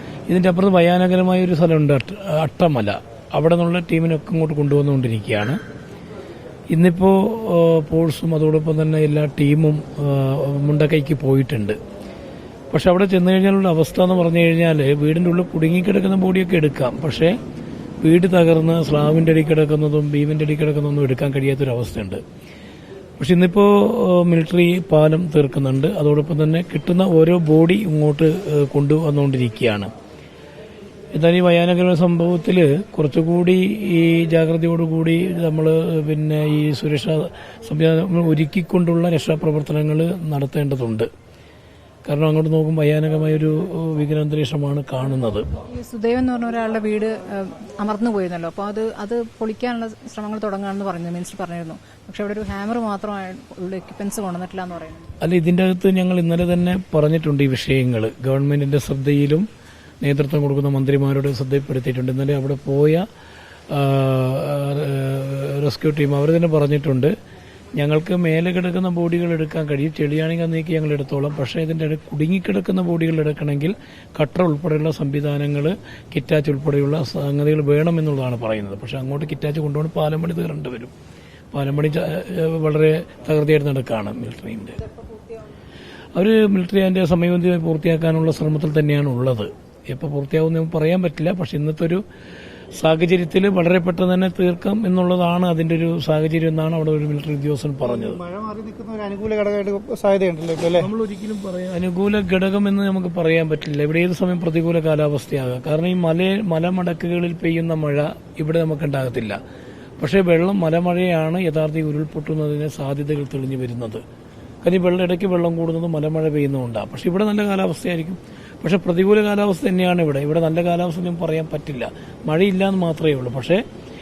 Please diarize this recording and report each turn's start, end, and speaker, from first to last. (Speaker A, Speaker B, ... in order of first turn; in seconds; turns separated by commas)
Speaker A: 0.3-5.6, Speaker A: 6.7-11.8, Speaker A: 12.7-17.4, Speaker A: 18.0-22.2, Speaker A: 23.2-29.9, Speaker A: 31.1-41.1, Speaker A: 42.0-45.5, Speaker B: 45.7-55.1, Speaker A: 55.2-59.5, Speaker A: 60.0-63.1, Speaker A: 63.7-67.1, Speaker A: 67.8-80.9, Speaker A: 81.5-84.9, Speaker B: 85.0-85.4, Speaker A: 86.2-92.0, Speaker A: 92.7-98.2, Speaker C: 97.8-100.9, Speaker A: 100.8-109.4, Speaker A: 110.0-114.0, Speaker A: 114.6-123.6